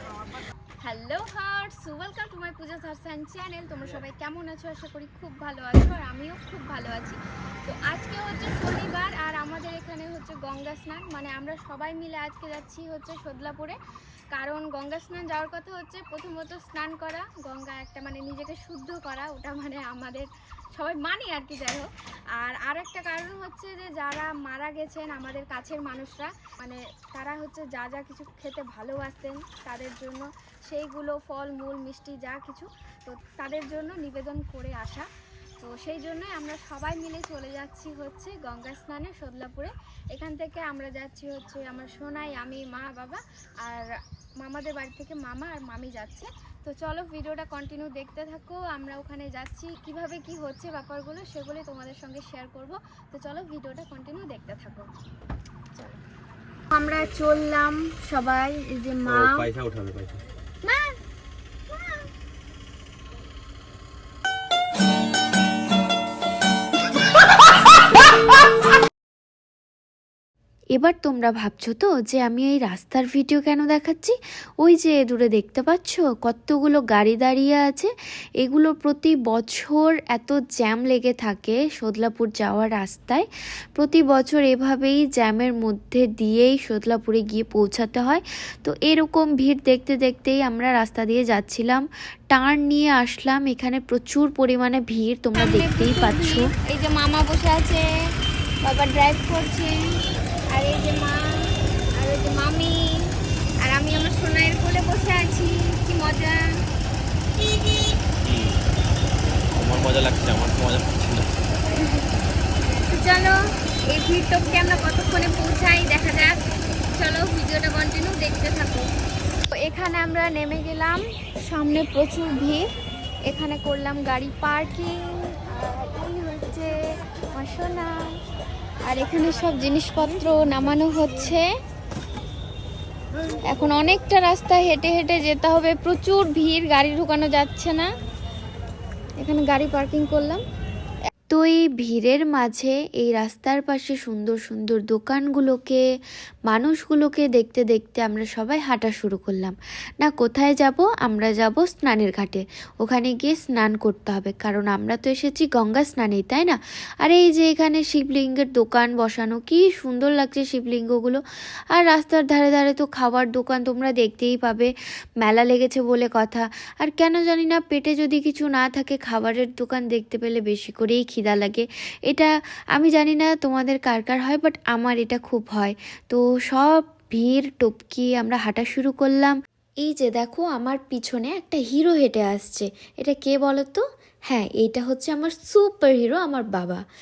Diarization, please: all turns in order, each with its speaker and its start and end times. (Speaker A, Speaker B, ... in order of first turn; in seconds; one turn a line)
Speaker A: 0.8-13.8
Speaker A: 14.3-35.1
Speaker A: 35.6-54.9
Speaker A: 55.7-56.0
Speaker A: 56.7-59.5
Speaker B: 59.0-60.2
Speaker A: 60.6-61.0
Speaker C: 70.7-83.2
Speaker C: 83.8-96.5
Speaker A: 95.4-97.8
Speaker A: 98.6-99.7
Speaker A: 100.5-106.4
Speaker B: 108.2-108.5
Speaker B: 109.6-111.3
Speaker A: 112.9-113.4
Speaker A: 113.9-116.3
Speaker A: 116.9-118.9
Speaker A: 119.5-122.6
Speaker A: 123.3-126.7
Speaker A: 127.3-128.2
Speaker A: 128.8-131.5
Speaker A: 133.5-137.9
Speaker A: 139.2-140.4
Speaker C: 141.3-145.8
Speaker C: 146.5-161.2
Speaker C: 161.7-186.8